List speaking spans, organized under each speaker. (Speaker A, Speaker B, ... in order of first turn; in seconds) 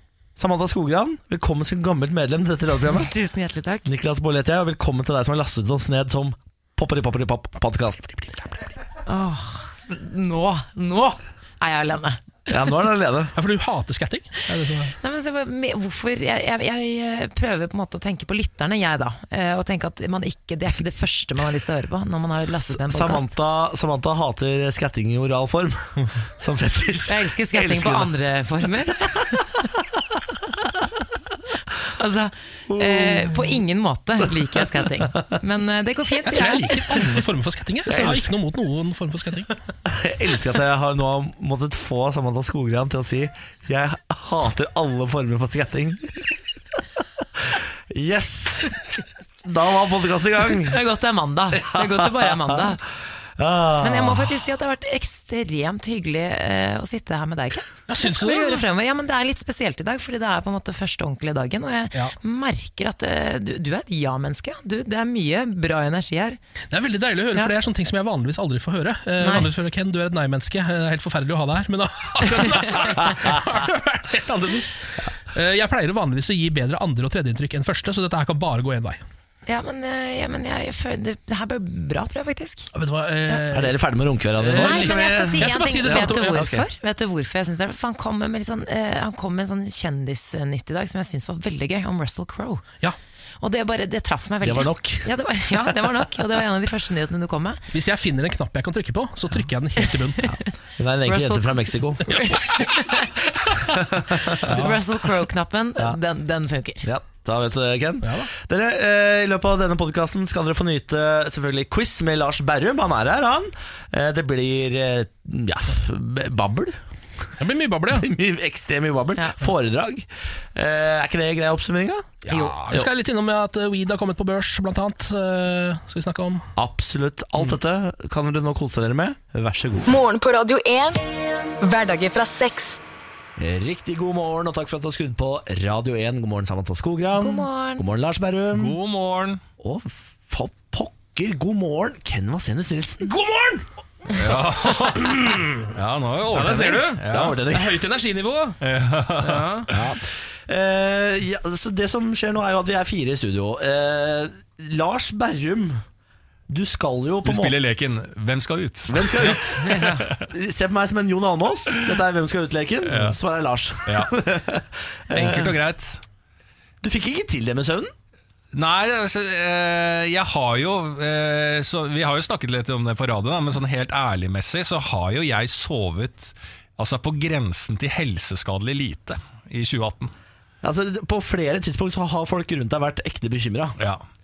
Speaker A: 0.4-3.1, 3.9-8.1, 12.5-13.3, 22.6-28.1, 32.7-33.5, 39.9-46.2, 47.4-48.8, 49.4-50.8, 51.7-52.6, 53.4-54.3, 83.5-86.7, 94.4-95.1, 100.2-102.3, 103.9-104.6, 106.8-116.8, 117.9-122.1, 126.5-129.9, 133.4-138.8, 139.6-143.1, 147.1-147.7, 149.7-155.8, 156.5-157.6, 158.9-165.5, 166.8-167.9, 180.6-183.8
Speaker B: 2.9-3.9, 9.1-12.2, 15.0-23.3, 27.1-29.4, 31.9-37.1, 37.9-38.3, 50.5-52.8, 53.8-66.4, 69.2-69.5, 72.4-72.8, 79.5-82.7, 84.5-92.6, 93.4-97.6, 100.2-100.5, 101.0-106.9, 122.3-122.5, 137.1-137.8, 159.6-160.1
Speaker C: 8.2-8.5, 13.3-14.9, 36.2-39.5, 57.9-58.6, 66.7-79.0, 82.7-83.7, 84.4-86.5, 97.7-100.2, 104.4-104.8, 108.0-108.3, 117.4-118.1, 122.2-126.5, 143.0-143.7, 144.8-145.7, 146.3-148.6, 149.2-149.7
Speaker D: 129.8-131.0, 131.6-132.8
Speaker E: 138.5-139.4, 144.1-147.4, 148.6-149.7, 157.2-160.2, 162.8-163.2, 163.8-164.1, 165.1-166.0, 168.5-180.1, 183.8-184.0